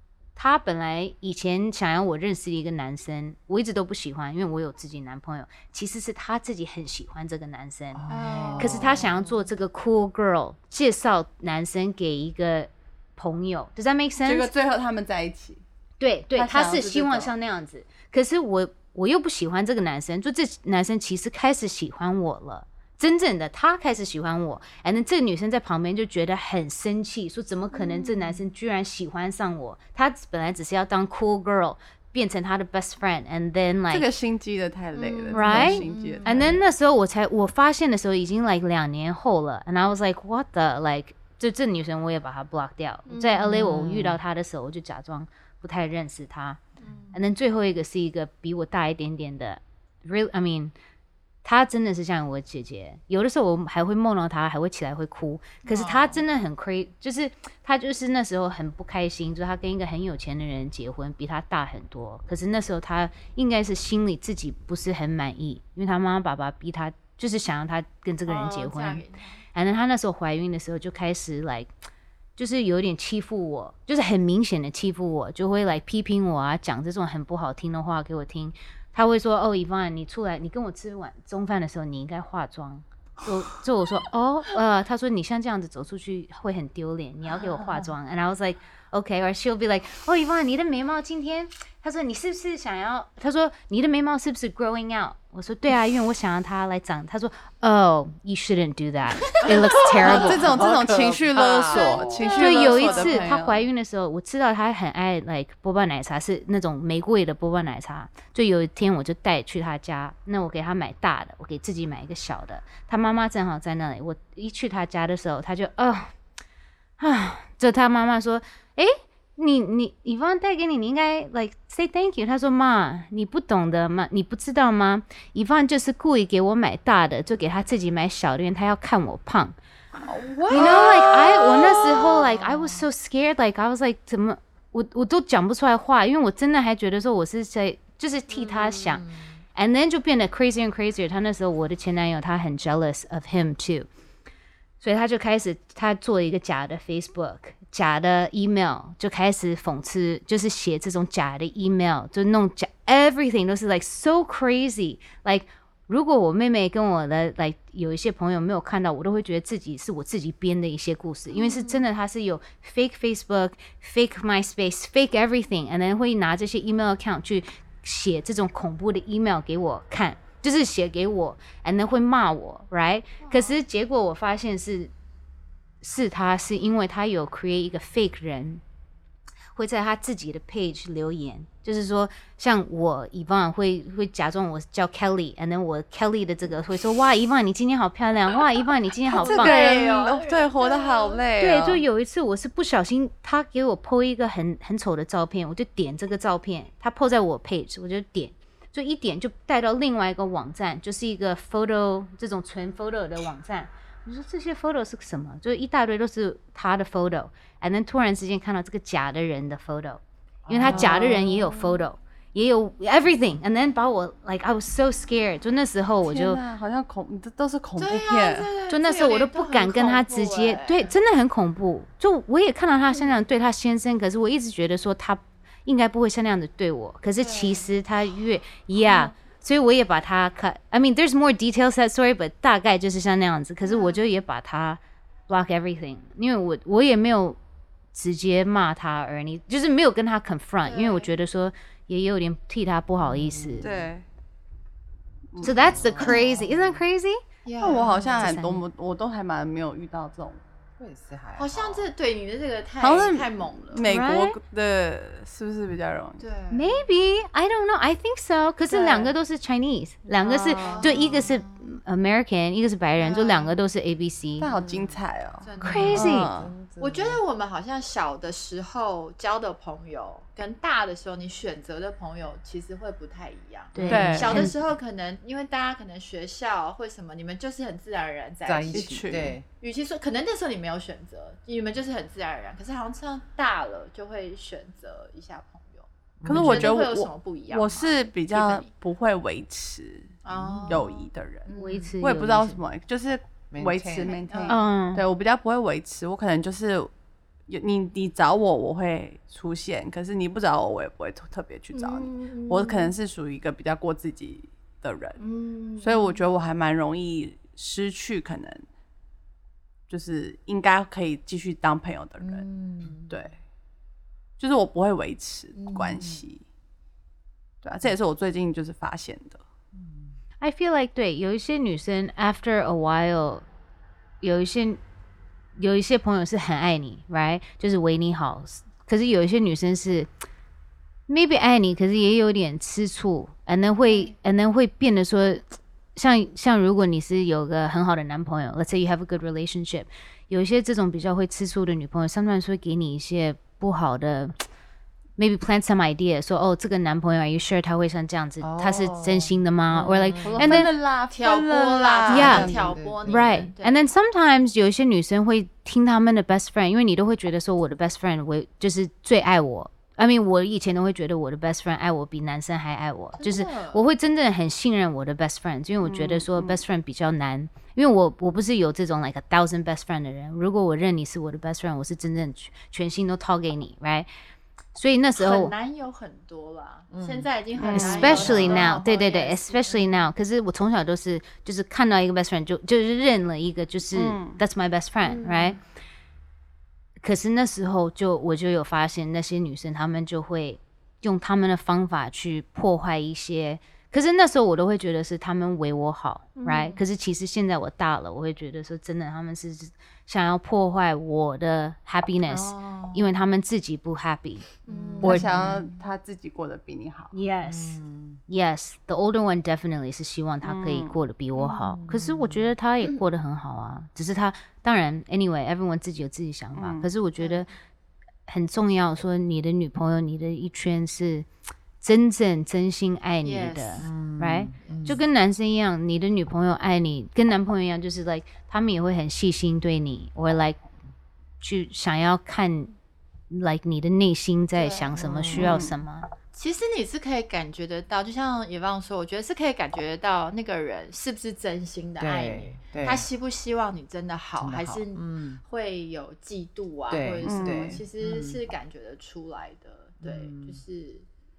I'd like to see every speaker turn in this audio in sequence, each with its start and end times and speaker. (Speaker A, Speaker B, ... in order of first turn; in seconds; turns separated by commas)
Speaker A: 0.4-8.0, Speaker B: 7.9-9.1, Speaker C: 8.1-9.1, Speaker A: 8.6-14.5, Speaker D: 14.2-15.6, Speaker A: 16.0-34.1, Speaker D: 16.4-17.3, Speaker C: 27.7-28.4, Speaker D: 33.9-36.5, Speaker C: 35.0-36.6, Speaker A: 35.3-46.6, Speaker C: 43.1-43.7, Speaker B: 43.5-44.2, Speaker C: 46.8-47.1, Speaker A: 47.1-50.7, Speaker A: 51.4-71.7, Speaker C: 55.7-56.2, Speaker C: 68.3-69.4, Speaker A: 72.4-100.5, Speaker B: 100.0-102.4, Speaker D: 100.1-103.7, Speaker C: 101.6-103.3, Speaker A: 102.3-116.1, Speaker A: 117.0-129.6, Speaker B: 130.1-131.0, Speaker D: 130.5-131.6, Speaker A: 130.5-143.9, Speaker C: 130.6-131.0, Speaker C: 131.8-132.8, Speaker A: 144.8-174.9, Speaker C: 161.3-161.8, Speaker C: 173.2-173.6, Speaker A: 175.8-178.6, Speaker A: 179.5-189.6, Speaker C: 189.1-191.2, Speaker D: 189.2-191.8, Speaker A: 191.4-216.4, Speaker B: 210.5-211.2, Speaker D: 210.6-211.4, Speaker D: 216.1-218.5, Speaker C: 217.8-220.9, Speaker A: 218.7-237.4, Speaker C: 227.2-227.7, Speaker C: 228.8-229.1, Speaker C: 233.6-234.0, Speaker A: 237.9-243.7, Speaker C: 240.7-241.1, Speaker B: 243.0-243.9, Speaker D: 243.6-244.0, Speaker D: 245.3-245.7, Speaker A: 245.4-247.2, Speaker B: 245.4-246.8, Speaker C: 247.4-248.3, Speaker D: 247.6-250.4, Speaker A: 248.2-248.6, Speaker B: 250.8-251.9, Speaker C: 251.4-253.9, Speaker D: 252.8-256.2, Speaker A: 253.8-254.4, Speaker C: 256.2-256.8, Speaker A: 256.5-264.5, Speaker C: 258.7-259.1, Speaker D: 260.2-261.1, Speaker C: 260.5-261.8, Speaker C: 263.0-263.6, Speaker D: 264.4-266.5, Speaker B: 264.7-265.0, Speaker C: 265.4-266.1, Speaker B: 265.6-267.2, Speaker A: 265.6-266.3, Speaker C: 266.8-288.7, Speaker A: 273.7-274.6, Speaker D: 273.9-274.5, Speaker B: 278.4-279.4, Speaker D: 278.7-279.4, Speaker B: 286.2-286.8, Speaker D: 286.3-296.9, Speaker C: 290.2-292.0, Speaker B: 290.3-290.8, Speaker A: 291.6-292.6, Speaker B: 293.5-294.1, Speaker C: 294.1-294.6, Speaker A: 294.5-295.0, Speaker D: 297.5-305.2, Speaker C: 301.7-302.9, Speaker C: 305.2-306.2, Speaker D: 305.8-308.6, Speaker D: 309.9-312.5, Speaker C: 312.2-313.1, Speaker D: 313.1-313.4, Speaker D: 314.4-316.4, Speaker C: 315.6-316.2, Speaker D: 317.6-319.4, Speaker A: 320.4-323.4, Speaker A: 324.2-324.8, Speaker A: 325.6-330.1, Speaker A: 331.1-344.4, Speaker A: 345.2-350.7, Speaker B: 348.4-350.6, Speaker D: 350.2-352.7, Speaker C: 351.1-353.9, Speaker A: 352.1-352.5, Speaker B: 352.1-353.5, Speaker A: 353.1-374.1, Speaker C: 363.2-363.8, Speaker D: 365.8-366.6, Speaker A: 374.8-375.5, Speaker C: 375.2-380.0, Speaker B: 376.9-377.3, Speaker D: 377.6-378.8, Speaker A: 377.7-385.6, Speaker B: 377.8-378.7, Speaker D: 383.9-384.4, Speaker C: 385.1-385.6, Speaker A: 387.0-404.5, Speaker C: 396.4-396.8, Speaker C: 402.3-403.0, Speaker C: 404.7-405.5, Speaker B: 404.7-405.6, Speaker D: 405.0-407.1, Speaker A: 407.1-417.5, Speaker B: 407.4-408.2, Speaker D: 410.4-411.0, Speaker C: 411.4-411.7, Speaker B: 411.7-412.5, Speaker D: 416.5-416.9, Speaker C: 417.2-417.5, Speaker A: 418.3-421.3, Speaker A: 421.8-430.6, Speaker C: 423.2-423.9, Speaker B: 423.8-425.0, Speaker C: 424.6-424.9, Speaker A: 431.4-432.8, Speaker A: 433.3-436.1, Speaker C: 434.6-435.0, Speaker B: 434.9-435.6, Speaker D: 435.3-435.8, Speaker C: 436.3-451.1, Speaker B: 442.0-443.1, Speaker B: 444.4-445.4, Speaker B: 446.9-448.4, Speaker D: 447.2-447.8, Speaker B: 450.0-450.6